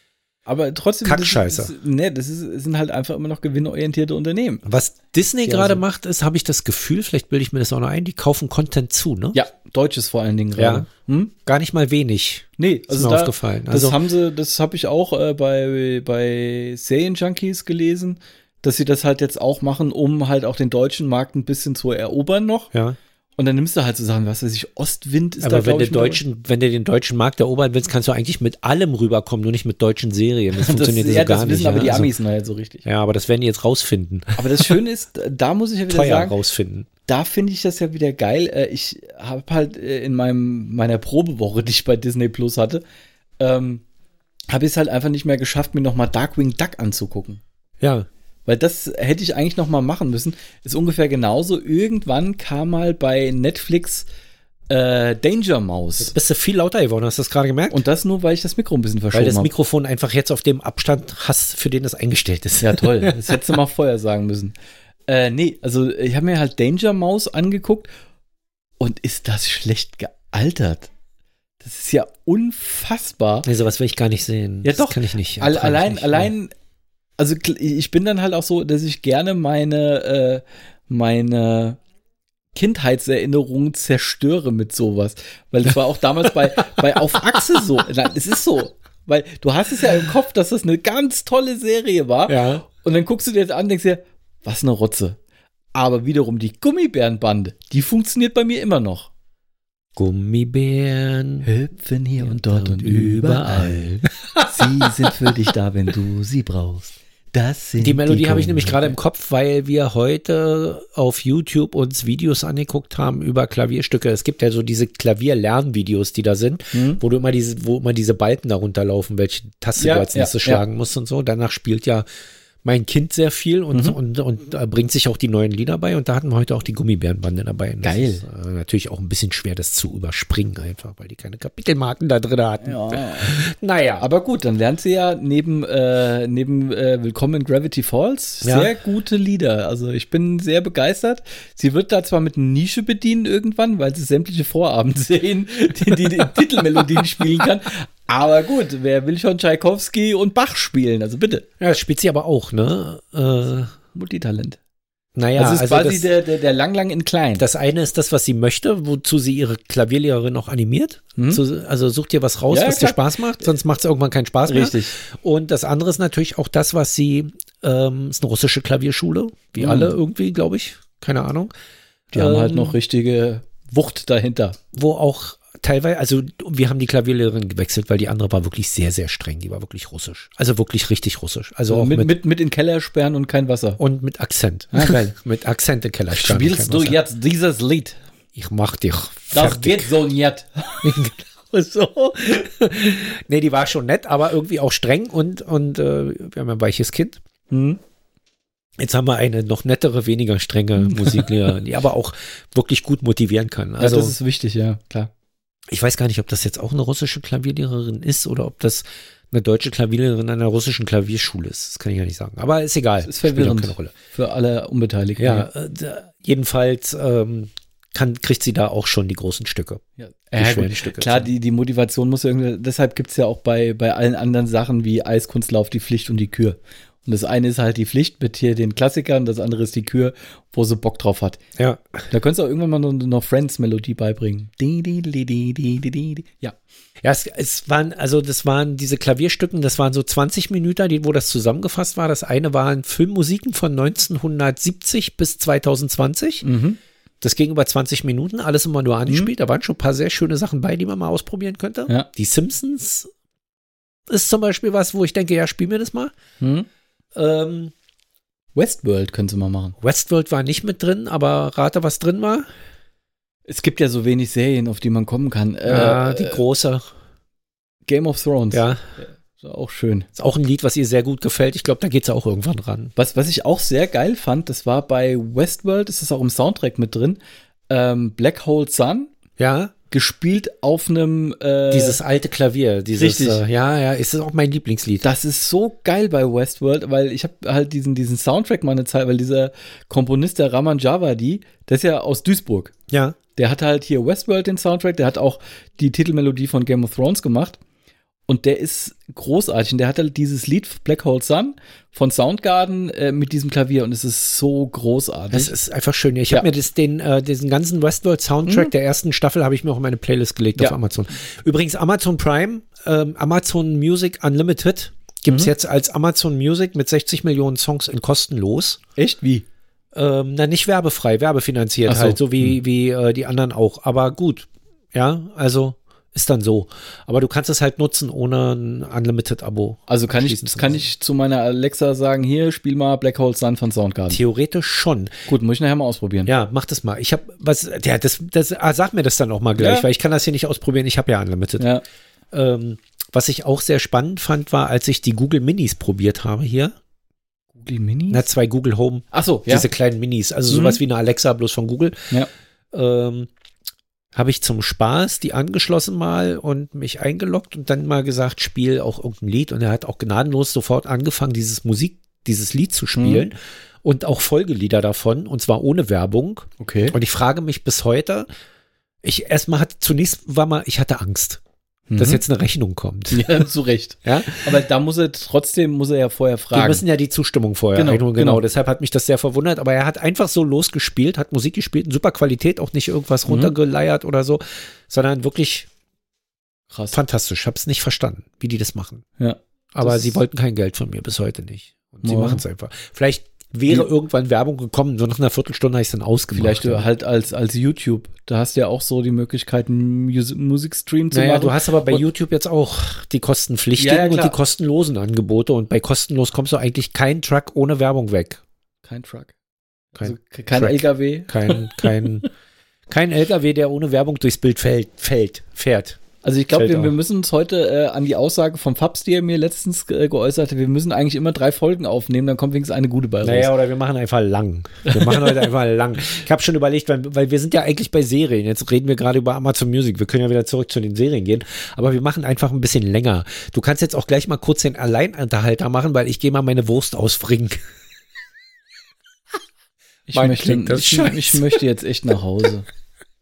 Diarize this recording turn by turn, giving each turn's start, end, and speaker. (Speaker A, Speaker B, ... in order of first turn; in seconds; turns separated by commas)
Speaker A: 0.5-4.6, Speaker B: 1.0-1.7, Speaker B: 4.6-9.4, Speaker A: 5.5-5.8, Speaker A: 9.3-11.3, Speaker B: 10.6-10.9, Speaker B: 11.4-14.0, Speaker A: 12.6-22.7, Speaker A: 23.4-26.2, Speaker B: 25.4-32.1, Speaker A: 30.5-32.8, Speaker B: 32.8-34.8, Speaker A: 34.4-36.4, Speaker B: 35.9-36.9, Speaker A: 37.1-42.8, Speaker A: 43.4-43.8, Speaker A: 44.5-47.4, Speaker B: 47.8-48.1, Speaker A: 48.5-54.1, Speaker A: 54.7-56.1, Speaker B: 56.0-57.8, Speaker A: 57.7-59.5, Speaker B: 59.1-63.4, Speaker A: 62.6-64.5, Speaker A: 65.1-67.9, Speaker A: 68.8-70.9, Speaker A: 71.6-73.5, Speaker B: 73.4-76.3, Speaker A: 74.6-76.5, Speaker A: 77.2-81.8, Speaker A: 82.5-95.2, Speaker B: 92.3-92.6, Speaker A: 95.7-99.1, Speaker B: 100.0-101.5, Speaker A: 101.4-109.0, Speaker B: 102.2-105.5, Speaker B: 107.8-122.0, Speaker A: 116.7-117.0, Speaker A: 119.8-120.6, Speaker B: 122.6-134.0, Speaker A: 127.8-128.2, Speaker A: 132.6-133.3, Speaker A: 134.0-151.4, Speaker B: 138.4-138.7, Speaker B: 151.6-153.8, Speaker A: 153.9-154.6, Speaker B: 155.2-156.1, Speaker A: 155.4-157.4, Speaker B: 157.4-171.5, Speaker A: 161.2-161.4, Speaker A: 162.5-163.0, Speaker A: 164.5-165.0, Speaker A: 169.6-169.9, Speaker A: 172.1-174.6, Speaker B: 172.1-172.7, Speaker B: 174.7-182.1, Speaker A: 181.7-183.8, Speaker B: 183.8-187.0, Speaker A: 184.7-185.0, Speaker A: 186.1-188.0, Speaker B: 188.3-190.0, Speaker A: 189.3-192.5, Speaker B: 190.8-191.3, Speaker B: 192.4-197.2, Speaker A: 197.5-197.8, Speaker B: 198.8-204.1, Speaker A: 200.8-201.3, Speaker A: 203.8-205.1, Speaker B: 205.7-213.9, Speaker A: 213.0-215.5, Speaker B: 215.2-219.8, Speaker A: 220.0-231.4, Speaker B: 220.3-221.3, Speaker B: 231.6-232.1, Speaker A: 232.1-236.6, Speaker B: 237.0-246.4, Speaker A: 246.4-246.8, Speaker B: 247.2-253.1, Speaker A: 249.1-249.3, Speaker B: 254.1-256.1, Speaker A: 256.4-256.7, Speaker B: 257.1-257.7, Speaker A: 258.5-259.8, Speaker B: 259.8-262.5, Speaker A: 263.5-266.4, Speaker B: 265.6-266.9, Speaker A: 267.9-270.1, Speaker B: 268.5-268.9, Speaker B: 270.1-272.9, Speaker A: 272.9-279.1, Speaker B: 279.4-279.7, Speaker A: 279.9-282.0, Speaker B: 281.7-285.1, Speaker A: 282.9-283.4, Speaker A: 285.0-292.7, Speaker B: 292.9-293.2, Speaker A: 293.4-297.6, Speaker A: 298.3-305.5, Speaker B: 305.3-318.8, Speaker A: 315.3-315.5, Speaker A: 319.0-319.4, Speaker B: 319.9-330.8, Speaker A: 321.9-322.6, Speaker A: 329.9-334.2, Speaker B: 334.1-335.1, Speaker A: 335.3-336.3, Speaker B: 336.2-341.7, Speaker A: 339.6-339.9, Speaker A: 341.6-341.8, Speaker B: 342.3-346.7, Speaker A: 347.6-348.3, Speaker B: 348.1-352.1, Speaker A: 349.1-349.7, Speaker A: 350.5-350.8, Speaker B: 352.7-353.3, Speaker B: 354.1-368.3, Speaker A: 362.9-363.3, Speaker A: 366.6-366.9, Speaker B: 369.0-371.4, Speaker A: 371.9-372.2, Speaker B: 371.9-373.5, Speaker A: 373.1-376.8, Speaker B: 374.0-374.5, Speaker B: 376.5-385.7, Speaker A: 377.7-378.4, Speaker A: 383.3-383.5, Speaker A: 386.7-387.0, Speaker B: 386.9-389.0, Speaker A: 389.2-390.2, Speaker B: 389.7-396.9, Speaker A: 392.0-392.4, Speaker A: 396.3-402.0, Speaker B: 401.1-408.4, Speaker A: 403.8-404.4, Speaker A: 408.8-409.3, Speaker B: 410.0-412.3, Speaker A: 410.0-412.2, Speaker B: 412.9-416.0, Speaker A: 416.2-423.5, Speaker B: 416.5-416.9, Speaker B: 423.2-437.6, Speaker A: 424.9-425.5, Speaker A: 440.1-442.6, Speaker B: 440.1-441.6